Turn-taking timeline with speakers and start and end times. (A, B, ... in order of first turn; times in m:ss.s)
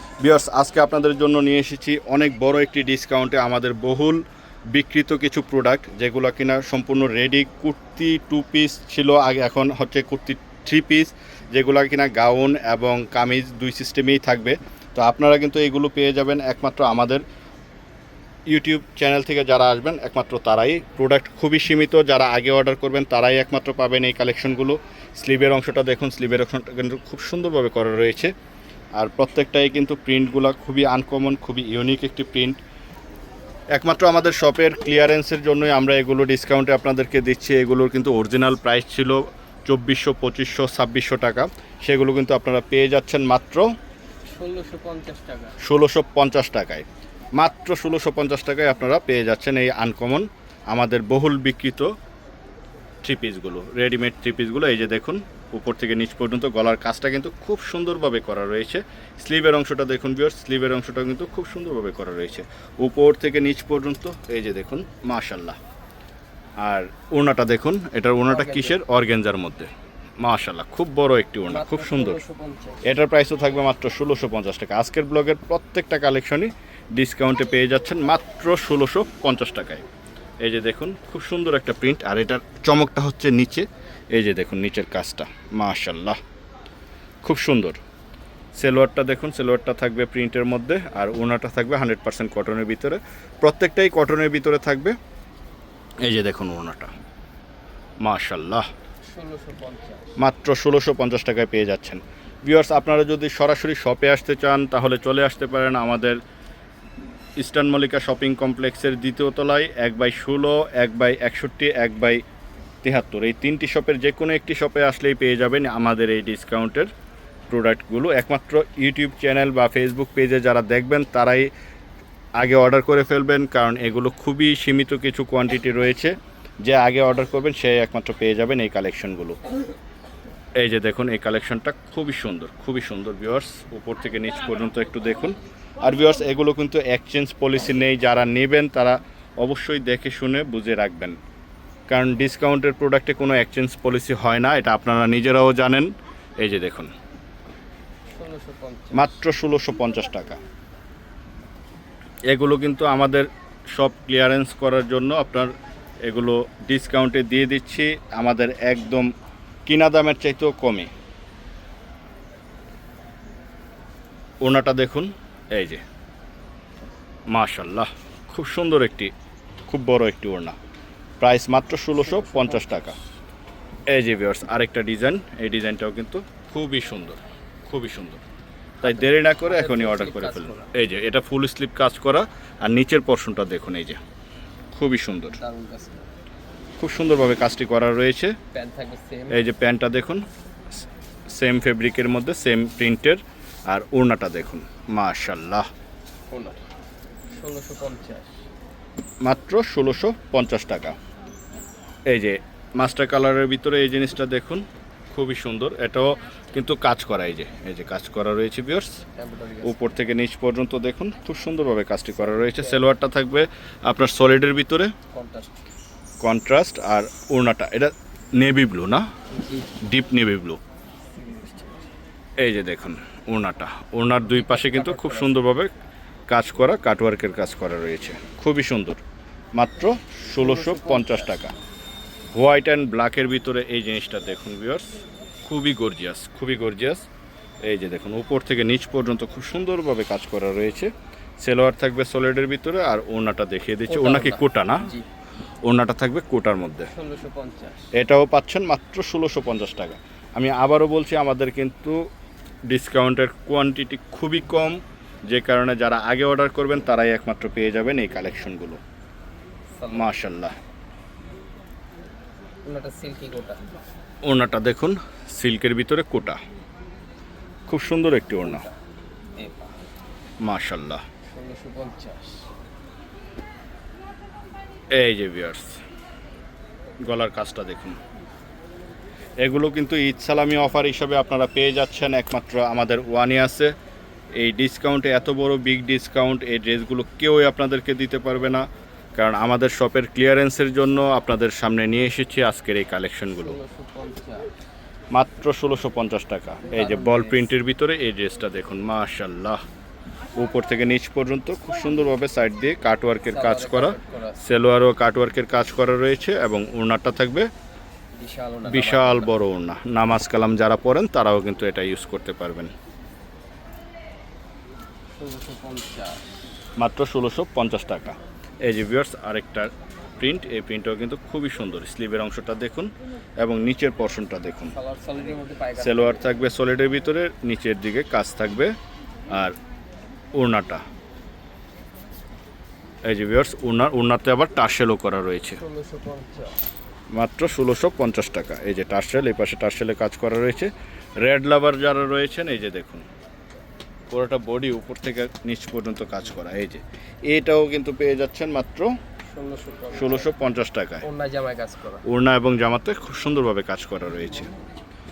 0:00.2-0:04.2 A
0:04.7-0:17.2 A
0:18.5-0:28.3 A
0:29.0-0:32.6 A
0:33.7-0:43.7 A
0:44.2-0:45.6 B
0:45.6-0:46.8 A
0:47.4-0:51.9 A
0:53.0-1:05.6 A
1:06.6-1:12.2 A
1:08.2-1:08.8 B
1:11.5-1:12.8 B
1:12.8-1:19.8 A
1:20.4-1:26.2 A
1:27.2-1:27.8 A
1:28.5-1:35.0 A
1:36.0-1:36.9 A
1:38.0-1:38.7 A
1:39.0-1:40.2 B
1:40.2-1:46.2 A
1:47.4-1:52.2 A
1:52.8-1:56.9 A
1:57.5-2:01.5 A
2:02.4-2:09.4 A
2:10.6-2:21.2 A
2:21.9-2:26.9 A
2:28.1-2:29.2 B
2:28.9-2:30.4 A
2:32.3-2:35.5 A
2:36.1-2:39.1 A
2:39.6-2:40.9 A
2:44.4-2:45.8 A
2:47.3-2:49.1 A
2:49.7-2:50.6 A
2:51.2-2:53.0 A
2:51.9-2:53.0 B
2:53.9-2:58.2 A
2:58.8-3:04.0 A
2:58.8-3:00.7 B
3:04.7-3:05.4 A
3:05.3-3:06.1 B
3:06.8-3:08.4 A
3:08.5-3:09.4 B
3:09.3-3:10.2 A
3:11.3-3:15.7 A
3:16.3-3:16.6 B
3:17.3-3:18.4 B
3:19.2-3:21.0 A
3:22.1-3:29.0 A
3:29.2-3:29.8 B
3:29.6-3:34.9 A
3:32.2-3:32.9 B
3:35.1-3:35.6 B
3:36.2-3:39.1 A
3:39.3-3:39.8 B
3:39.8-3:40.6 A
3:41.1-3:41.9 B
3:42.4-3:45.7 A
3:44.2-3:45.4 B
3:46.3-3:49.0 A
3:49.6-3:51.5 A
3:50.3-3:51.4 B
3:52.3-3:57.0 A
3:57.6-4:04.9 A
4:03.9-4:05.0 B
4:05.6-4:06.9 A
4:06.9-4:07.9 B
4:07.9-4:12.0 A
4:12.7-4:18.8 A
4:19.8-4:20.1 B
4:19.9-4:20.5 A
4:22.6-4:23.6 B
4:24.2-4:26.4 A
4:27.7-4:28.6 A
4:28.4-4:28.7 B
4:29.4-4:29.8 B
4:30.4-4:31.0 A
4:31.3-4:32.5 B
4:34.9-4:35.8 A
4:37.0-4:38.0 A
4:39.4-4:43.7 A
4:44.4-4:53.6 A
4:53.4-4:54.5 B
4:55.1-4:59.6 A
4:56.7-4:57.5 B
5:00.4-5:07.5 A
5:03.3-5:04.4 B
5:08.2-5:09.4 B
5:08.7-5:12.7 A
5:15.2-5:16.4 B
5:16.8-5:24.7 A
5:24.7-5:26.3 B
5:25.8-5:28.7 A
5:29.3-5:29.6 A
5:30.3-5:30.8 A
5:33.0-5:35.6 A
5:35.5-5:36.6 B
5:37.1-5:43.1 A
5:44.1-5:48.9 A
5:49.3-5:50.4 B
5:49.9-5:51.0 A
5:51.0-5:52.0 B
5:52.0-5:54.5 A